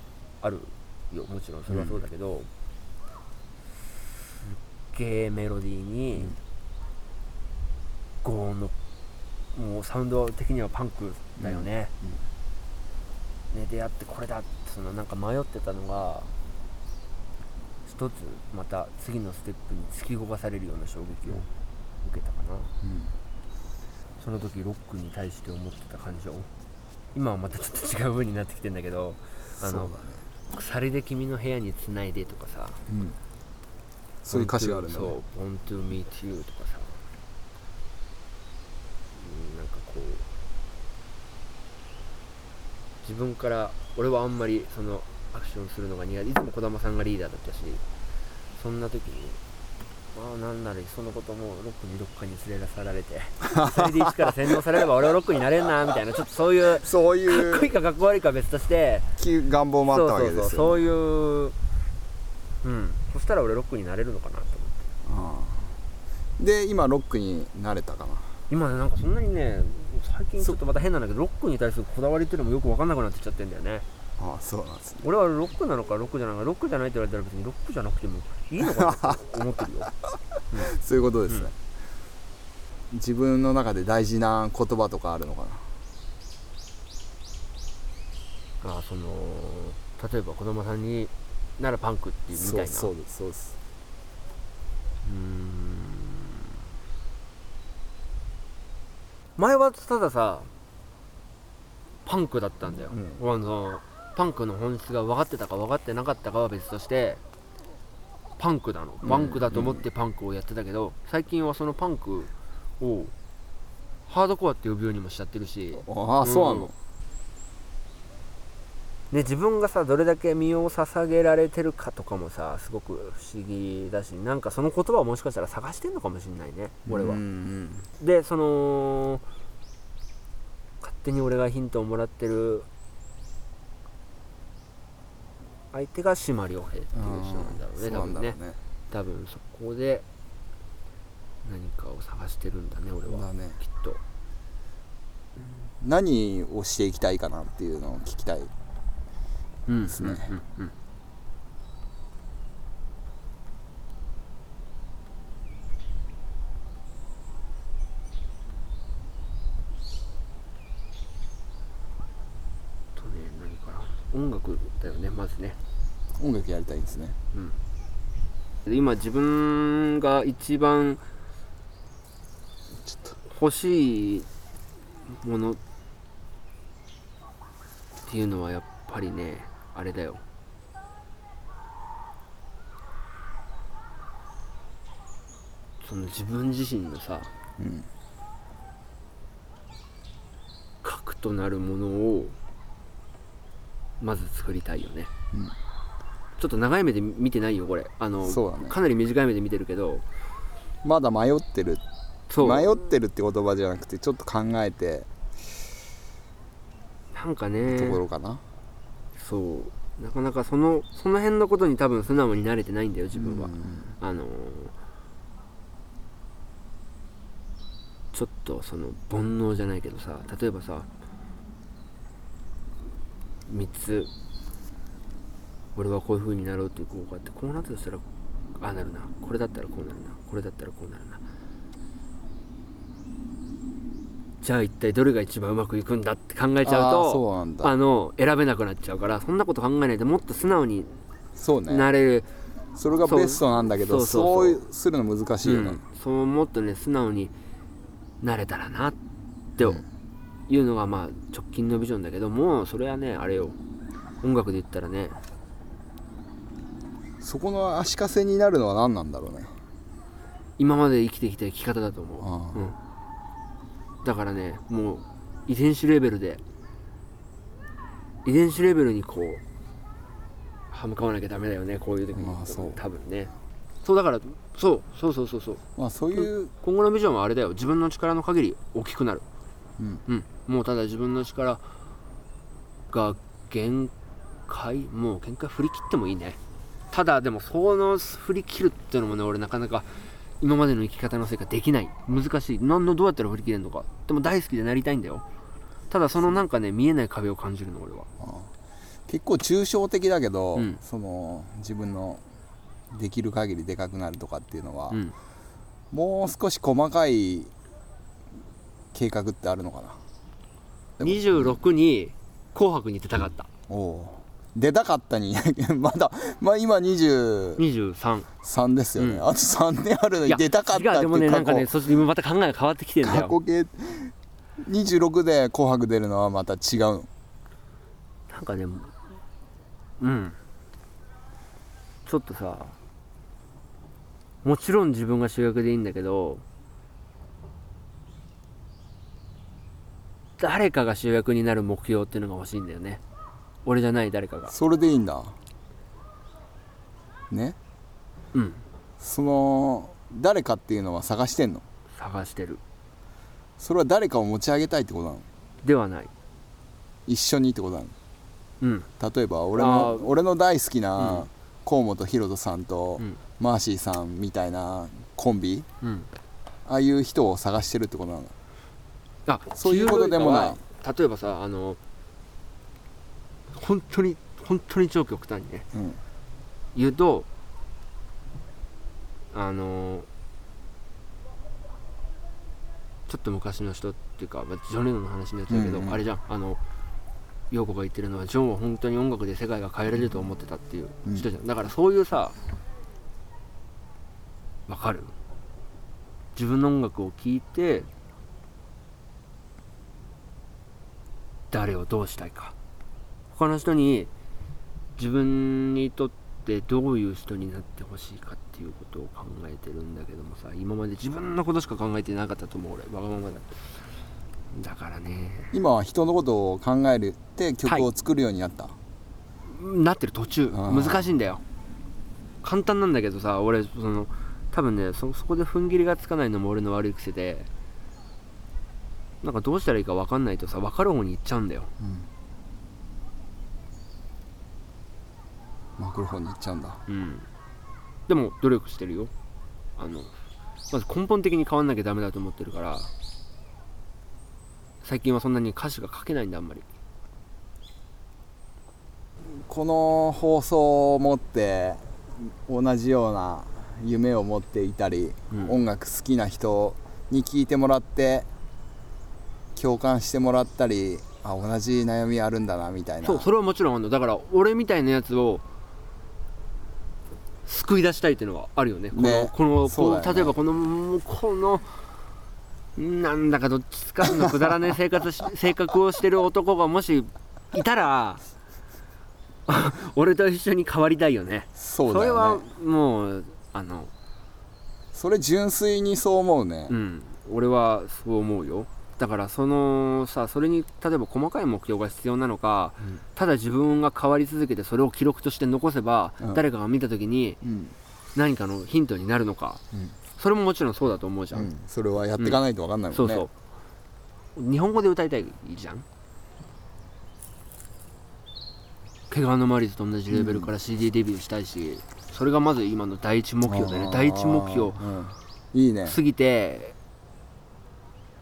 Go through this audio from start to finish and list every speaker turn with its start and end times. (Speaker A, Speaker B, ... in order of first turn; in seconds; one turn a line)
Speaker A: 0.4-2.5
Speaker B: 1.7-2.0
Speaker A: 4.9-6.4
Speaker A: 8.2-8.7
Speaker A: 9.5-11.9
Speaker B: 11.4-12.2
Speaker A: 13.5-16.3
Speaker A: 17.9-21.5
Speaker A: 22.0-22.7
Speaker B: 22.8-23.1
Speaker A: 24.2-26.5
Speaker A: 27.1-30.0
Speaker B: 29.6-30.2
Speaker A: 30.5-32.8
Speaker B: 32.9-33.2
Speaker B: 34.2-35.2
Speaker A: 34.3-37.0
Speaker A: 39.1-40.3
Speaker A: 43.0-47.8
Speaker A: 48.5-49.4
Speaker A: 50.1-59.1
Speaker B: 53.4-54.3
Speaker B: 56.8-57.7
Speaker B: 59.2-60.8
Speaker A: 59.9-61.6
Speaker A: 62.6-64.8
Speaker B: 65.0-65.8
Speaker B: 66.4-68.4
Speaker A: 68.5-73.8
Speaker B: 74.2-75.1
Speaker A: 75.0-79.9
Speaker B: 78.7-79.4
Speaker A: 80.5-80.8
Speaker B: 80.5-81.5
Speaker B: 82.9-85.7
Speaker A: 88.6-92.9
Speaker B: 92.3-93.6
Speaker A: 95.0-96.5
Speaker A: 99.4-100.5
Speaker A: 102.0-107.2
Speaker B: 102.9-103.2
Speaker A: 108.4-113.1
Speaker B: 109.0-109.8
Speaker A: 114.1-116.7
Speaker B: 115.8-116.7
Speaker A: 119.1-127.2
Speaker B: 126.9-127.9
Speaker A: 128.0-129.2
Speaker A: 130.8-132.7
Speaker A: 135.7-138.4
Speaker B: 136.9-138.6
Speaker A: 138.9-140.1
Speaker A: 141.4-144.0
Speaker B: 143.1-143.6
Speaker B: 145.4-148.5
Speaker A: 149.7-150.7
Speaker B: 149.9-150.3
Speaker A: 162.9-165.6
Speaker B: 166.2-167.2
Speaker A: 167.3-167.6
Speaker A: 168.7-171.0
Speaker B: 172.8-173.2
Speaker A: 173.3-174.3
Speaker A: 175.1-175.6
Speaker A: 178.1-180.2
Speaker A: 185.8-187.3
Speaker B: 187.6-187.9
Speaker A: 190.8-192.4
Speaker A: 194.0-195.1
Speaker A: 196.4-200.1
Speaker B: 198.2-198.8
Speaker B: 200.8-201.8
Speaker A: 202.3-202.8
Speaker B: 202.4-205.1
Speaker A: 207.1-208.0
Speaker B: 207.7-208.4
Speaker A: 209.2-214.7
Speaker B: 213.1-213.9
Speaker A: 218.1-220.9
Speaker A: 223.5-224.1
Speaker A: 225.8-228.1
Speaker A: 228.6-231.2
Speaker A: 234.4-241.0
Speaker B: 236.6-237.8
Speaker B: 241.4-241.9
Speaker A: 241.7-242.3
Speaker B: 242.8-245.8
Speaker A: 243.0-244.6
Speaker A: 245.4-247.3
Speaker A: 248.2-249.0
Speaker A: 249.6-249.8
Speaker B: 249.6-249.8
Speaker A: 250.5-253.6
Speaker A: 254.2-255.2
Speaker B: 257.2-259.6
Speaker A: 260.6-262.8
Speaker B: 262.2-262.7
Speaker A: 264.0-266.4
Speaker A: 268.2-269.4
Speaker A: 270.7-273.3
Speaker B: 272.1-272.8
Speaker A: 273.8-275.6
Speaker B: 275.8-276.5
Speaker A: 276.1-279.2
Speaker B: 279.8-280.0
Speaker A: 280.1-281.6
Speaker A: 282.9-283.9
Speaker A: 284.5-286.4
Speaker A: 286.9-295.2
Speaker A: 295.9-298.1
Speaker B: 298.2-298.5
Speaker B: 299.1-302.2
Speaker A: 300.6-300.8
Speaker B: 302.9-305.0
Speaker A: 304.9-305.1
Speaker B: 305.9-307.5
Speaker B: 308.9-310.0
Speaker B: 311.0-311.6
Speaker A: 311.0-313.5
Speaker B: 313.7-317.6
Speaker A: 317.6-318.3
Speaker B: 318.4-321.7
Speaker A: 319.0-319.3
Speaker A: 320.2-323.3
Speaker B: 323.0-327.1
Speaker A: 328.3-329.0
Speaker A: 330.0-330.4
Speaker A: 332.1-332.8
Speaker A: 334.4-336.4
Speaker A: 340.4-343.0
Speaker A: 343.6-344.6
Speaker B: 344.5-345.4
Speaker B: 347.3-347.6
Speaker A: 348.3-348.6
Speaker B: 349.0-351.7
Speaker A: 351.9-352.6
Speaker B: 353.6-355.3
Speaker A: 355.6-356.1
Speaker B: 357.1-357.9
Speaker A: 358.6-358.9
Speaker B: 359.0-365.7
Speaker A: 359.5-360.1
Speaker A: 361.0-361.3
Speaker A: 365.8-366.1
Speaker B: 366.7-368.3
Speaker A: 369.2-371.8
Speaker B: 369.5-370.6
Speaker A: 373.5-375.7
Speaker B: 375.7-376.0
Speaker A: 376.7-377.3
Speaker A: 379.3-380.1
Speaker A: 383.1-386.6
Speaker B: 385.5-386.0
Speaker A: 387.5-392.4
Speaker A: 394.7-395.1
Speaker A: 396.4-397.9
Speaker A: 401.5-402.6
Speaker A: 403.3-404.1
Speaker A: 405.0-414.0
Speaker A: 414.5-415.6
Speaker B: 415.5-418.8
Speaker A: 419.4-421.4
Speaker B: 420.5-421.1
Speaker A: 422.4-427.5
Speaker A: 429.2-431.7
Speaker B: 431.8-432.1
Speaker B: 435.8-436.8
Speaker A: 436.9-437.3
Speaker A: 438.1-439.1
Speaker A: 439.8-440.1
Speaker A: 440.7-442.9
Speaker A: 444.8-446.7
Speaker B: 449.3-458.3
Speaker A: 455.3-455.6
Speaker B: 459.6-463.3
Speaker A: 463.0-465.4
Speaker A: 467.4-471.9
Speaker B: 468.9-470.4
Speaker A: 472.8-478.2
Speaker A: 479.5-483.9
Speaker B: 481.6-482.5
Speaker B: 484.9-486.8
Speaker A: 486.7-497.4
Speaker B: 497.4-497.8
Speaker A: 498.1-499.6
Speaker A: 500.2-501.5
Speaker B: 501.3-503.3
Speaker A: 502.2-503.3
Speaker A: 504.4-505.9
Speaker A: 509.1-514.8
Speaker B: 510.1-510.5
Speaker B: 513.5-516.0
Speaker A: 515.9-516.8